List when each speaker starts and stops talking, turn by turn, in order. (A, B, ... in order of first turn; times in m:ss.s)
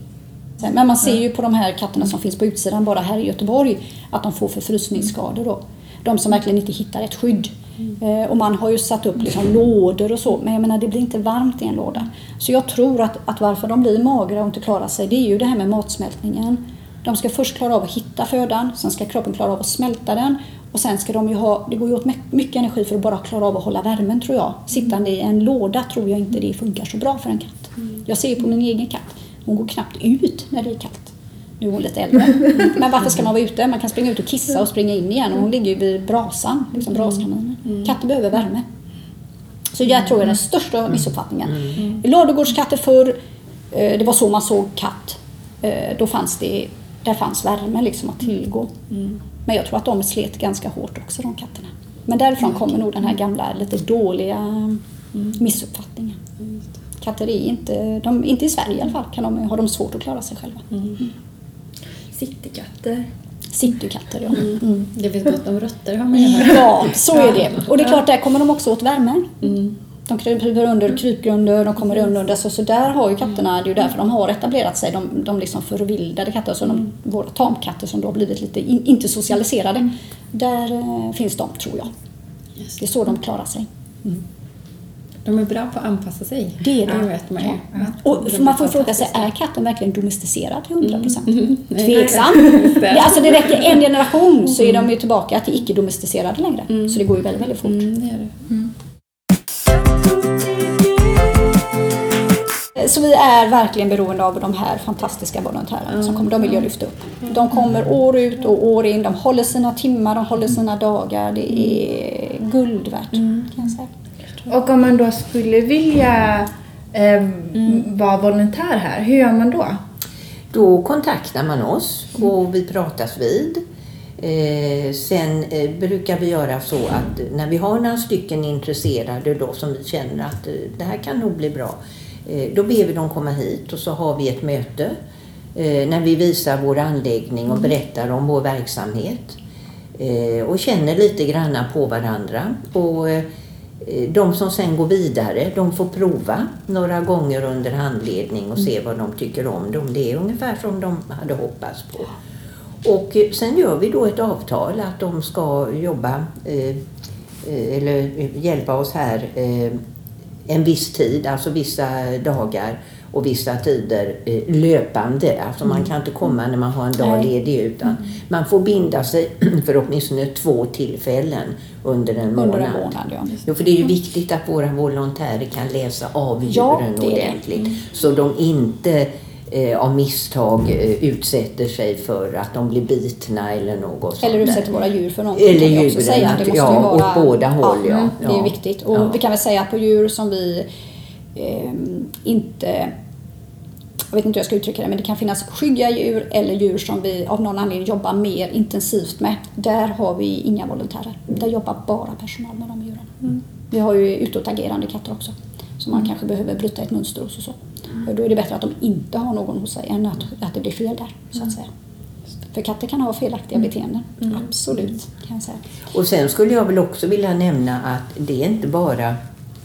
0:00.6-0:38.6 A
0:39.7-0:43.2 A
0:43.7-0:48.7 A
0:49.4-0:56.2 A
0:57.0-1:00.6 A
1:02.1-1:03.1 B
1:03.5-1:04.8 A
1:04.4-1:07.1 C
1:06.2-1:21.9 A
1:22.8-1:24.2 A
1:25.2-1:29.2 C
1:26.6-1:37.8 A
1:30.8-1:33.7 C
1:37.6-1:38.3 C
1:40.0-1:41.4 C
1:42.7-1:53.9 A
1:53.2-1:53.5 C
1:54.5-1:59.8 B
2:00.5-2:03.6 D
2:04.2-2:15.0 D
2:15.5-2:19.4 D
2:20.0-2:23.2 D
2:23.8-2:32.2 D
2:32.8-2:36.8 D
2:37.4-2:39.8 D
2:40.5-3:04.7 D
2:47.0-2:47.3 A
2:52.3-2:53.4 A
2:56.5-2:57.4 A
3:04.2-3:10.7 A
3:05.3-3:09.1 D
3:11.4-3:12.9 A
3:14.1-3:31.7 A
3:32.5-3:35.6 A
3:35.9-3:39.2 D